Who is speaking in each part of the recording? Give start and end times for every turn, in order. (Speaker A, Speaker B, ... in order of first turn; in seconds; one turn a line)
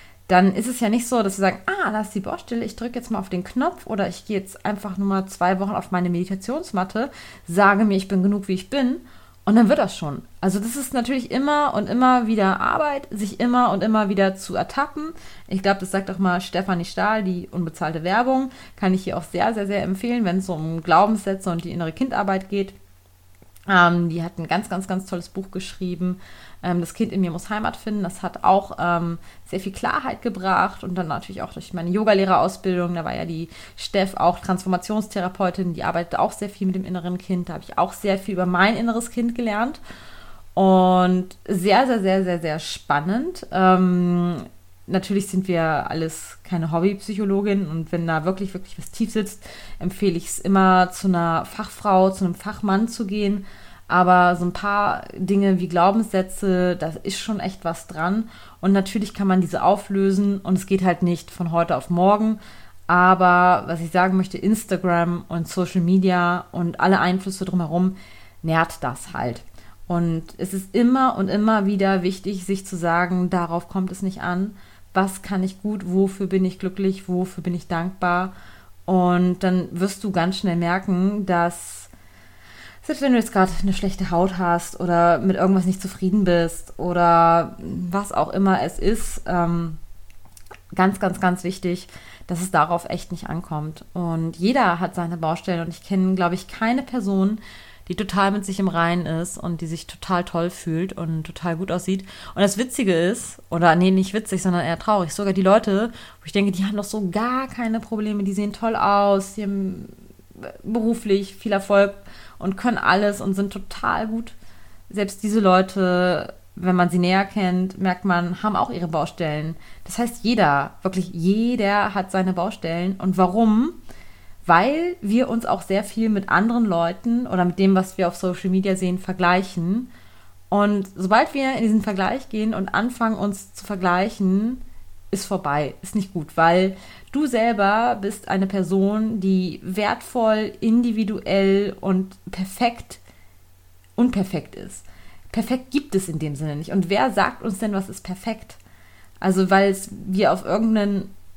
Speaker A: 0.3-22.7
Speaker A: 23.7-39.8
Speaker A: 40.5-78.3
Speaker A: 78.9-81.9
Speaker A: 82.8-89.8
Speaker A: 90.7-114.3
Speaker A: 114.9-123.8
Speaker A: 124.4-129.9
Speaker A: 130.5-143.0
Speaker A: 144.0-148.6
Speaker A: 149.2-151.1